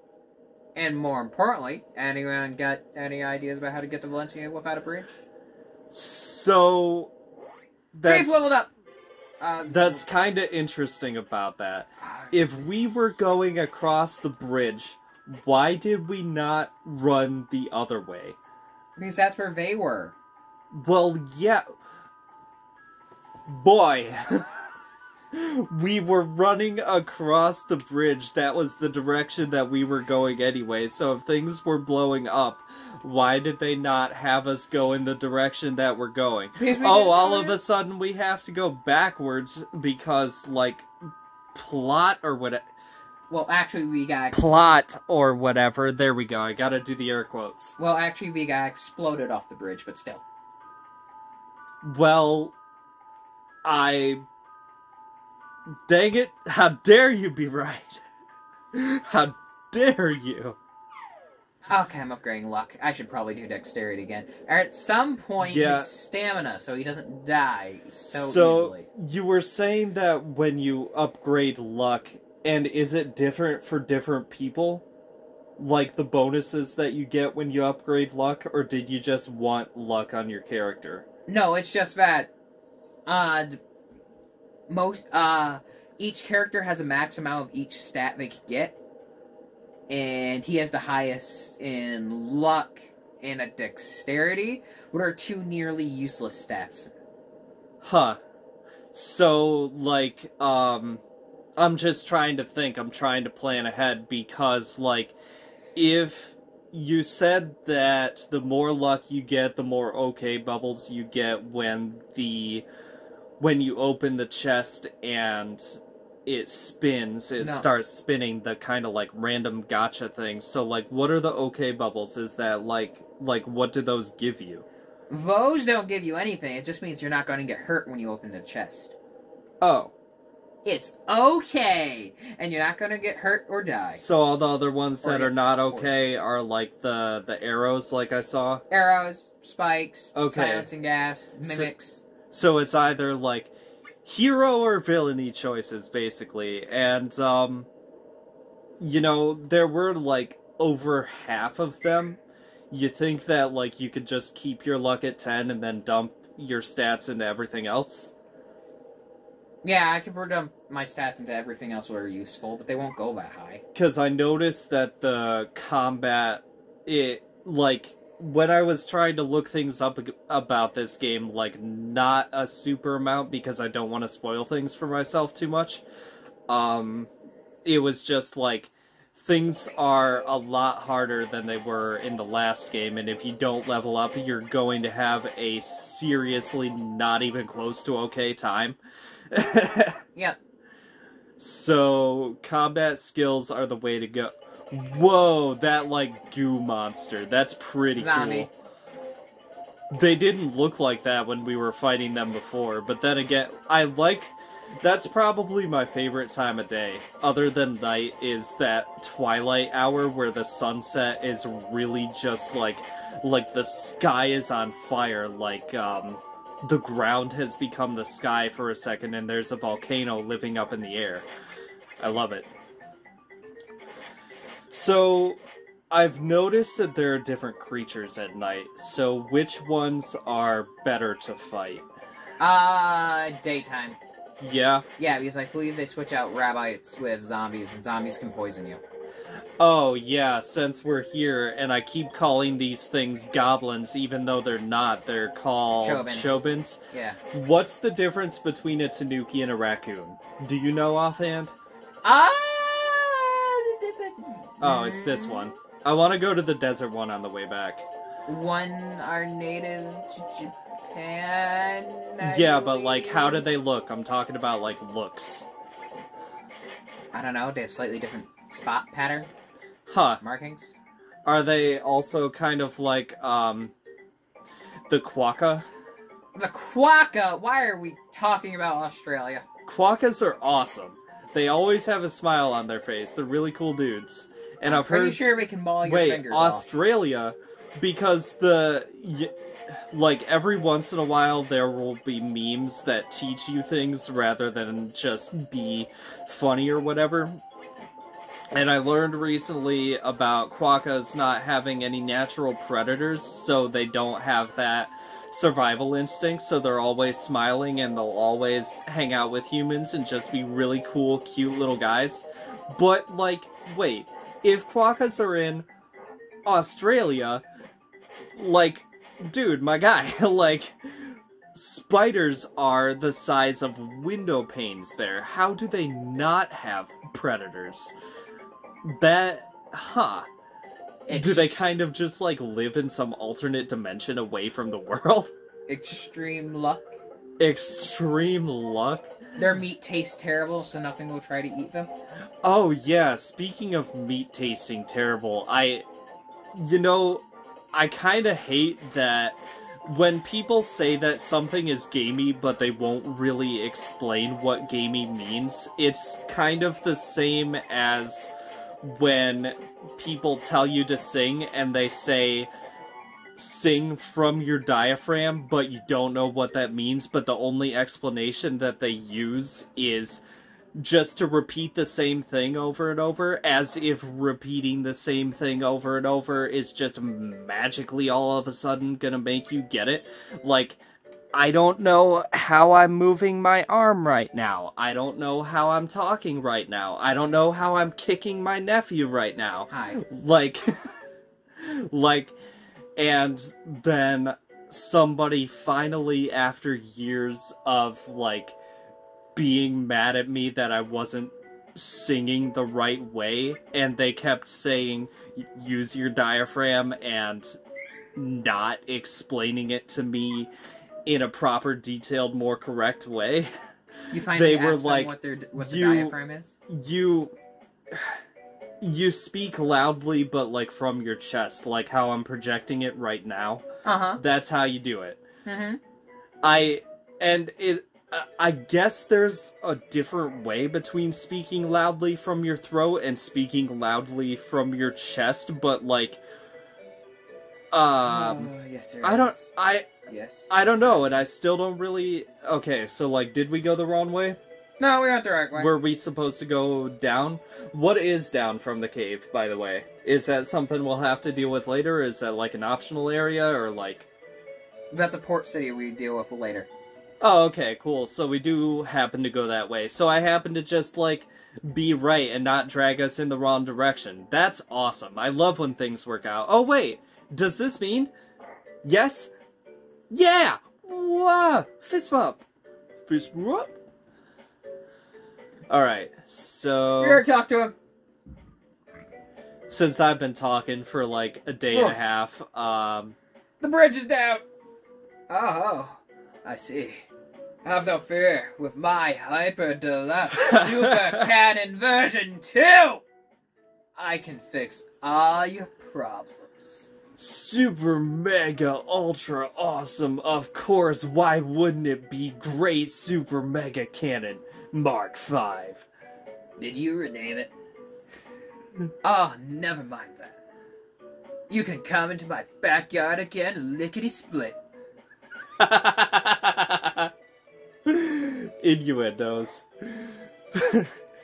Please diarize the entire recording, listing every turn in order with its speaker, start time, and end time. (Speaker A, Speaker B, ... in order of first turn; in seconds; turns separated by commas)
Speaker A: 0.7-5.1, Speaker B: 5.9-7.1, Speaker B: 7.9-8.4, Speaker A: 8.1-8.7, Speaker A: 9.4-10.0, Speaker B: 9.7-18.4, Speaker A: 12.0-12.3, Speaker A: 19.0-20.1, Speaker B: 20.7-21.6, Speaker B: 23.5-24.5, Speaker B: 25.3-40.9, Speaker A: 36.6-37.6, Speaker B: 41.5-42.6, Speaker A: 43.3-44.7, Speaker B: 44.3-47.8, Speaker A: 47.8-50.2, Speaker B: 51.8-52.5, Speaker B: 53.6-54.2, Speaker B: 55.9-58.0, Speaker B: 58.7-60.6, Speaker A: 61.7-68.9, Speaker B: 65.4-65.9, Speaker B: 68.1-74.8, Speaker B: 75.6-81.0, Speaker A: 81.3-82.3, Speaker A: 83.0-83.6, Speaker A: 84.7-88.8, Speaker A: 89.9-96.9, Speaker B: 97.8-98.2, Speaker B: 98.9-101.0, Speaker B: 101.6-105.2, Speaker B: 105.7-112.7, Speaker B: 113.4-124.7, Speaker A: 117.4-117.7, Speaker A: 125.1-128.9, Speaker B: 129.6-129.9, Speaker A: 130.6-134.0, Speaker B: 133.9-138.6, Speaker A: 135.0-136.0, Speaker A: 138.7-142.0, Speaker B: 140.1-140.7, Speaker B: 141.4-141.7, Speaker B: 142.3-143.5, Speaker B: 144.0-147.7, Speaker B: 148.8-152.2, Speaker B: 152.7-158.1, Speaker A: 159.6-163.6, Speaker B: 163.7-175.8, Speaker B: 176.5-177.1, Speaker B: 177.6-188.8, Speaker B: 189.3-190.0, Speaker B: 191.4-198.5, Speaker A: 197.9-198.5, Speaker B: 199.9-221.3, Speaker B: 222.0-222.5, Speaker B: 224.7-225.4, Speaker B: 225.9-231.8, Speaker A: 232.4-234.0, Speaker B: 234.4-234.8, Speaker A: 235.0-238.8, Speaker B: 239.6-246.8, Speaker A: 245.8-247.2, Speaker B: 247.3-251.5, Speaker A: 252.0-255.5, Speaker B: 254.6-257.9, Speaker A: 258.3-263.4, Speaker B: 262.2-265.5, Speaker A: 267.1-269.3, Speaker B: 269.9-270.2, Speaker A: 270.2-270.8, Speaker B: 271.2-273.7, Speaker B: 274.9-275.6, Speaker A: 276.3-279.4, Speaker B: 279.6-285.2, Speaker A: 284.6-286.7, Speaker B: 285.8-297.4, Speaker B: 298.5-315.7, Speaker B: 316.4-317.4, Speaker B: 318.4-327.9, Speaker B: 328.8-330.3, Speaker A: 331.1-331.7, Speaker B: 331.1-335.3, Speaker A: 335.7-336.9, Speaker B: 337.4-339.1, Speaker A: 339.4-341.9, Speaker B: 342.4-345.9, Speaker B: 346.5-358.3, Speaker B: 358.8-362.5, Speaker B: 363.4-370.2, Speaker B: 370.8-380.8, Speaker B: 381.3-390.7, Speaker A: 389.7-390.0, Speaker B: 391.6-392.3, Speaker B: 392.9-398.6, Speaker B: 399.3-407.5, Speaker B: 408.1-410.5, Speaker B: 411.1-413.5, Speaker B: 414.1-416.1, Speaker A: 414.1-416.5, Speaker B: 416.7-417.3, Speaker B: 417.9-418.2, Speaker B: 418.8-423.6, Speaker A: 423.8-424.2, Speaker B: 424.2-425.2, Speaker A: 425.4-425.8, Speaker B: 426.4-436.2, Speaker B: 437.7-438.5, Speaker A: 438.0-439.5, Speaker B: 439.0-439.9, Speaker A: 440.1-441.2, Speaker B: 440.5-444.4, Speaker A: 444.8-445.7, Speaker B: 445.5-454.1, Speaker A: 454.9-456.7, Speaker B: 457.2-468.1, Speaker B: 468.8-469.3, Speaker B: 470.1-472.4, Speaker B: 473.1-473.8, Speaker B: 475.7-477.2, Speaker A: 477.0-477.7, Speaker B: 479.7-483.1, Speaker A: 481.7-482.0, Speaker A: 483.6-484.4, Speaker A: 485.3-487.1, Speaker A: 487.6-493.0, Speaker B: 490.3-491.1, Speaker A: 493.9-496.9, Speaker B: 497.2-505.9, Speaker A: 506.6-507.5, Speaker A: 509.0-510.4, Speaker A: 511.5-514.6, Speaker B: 515.6-517.1, Speaker B: 517.9-520.9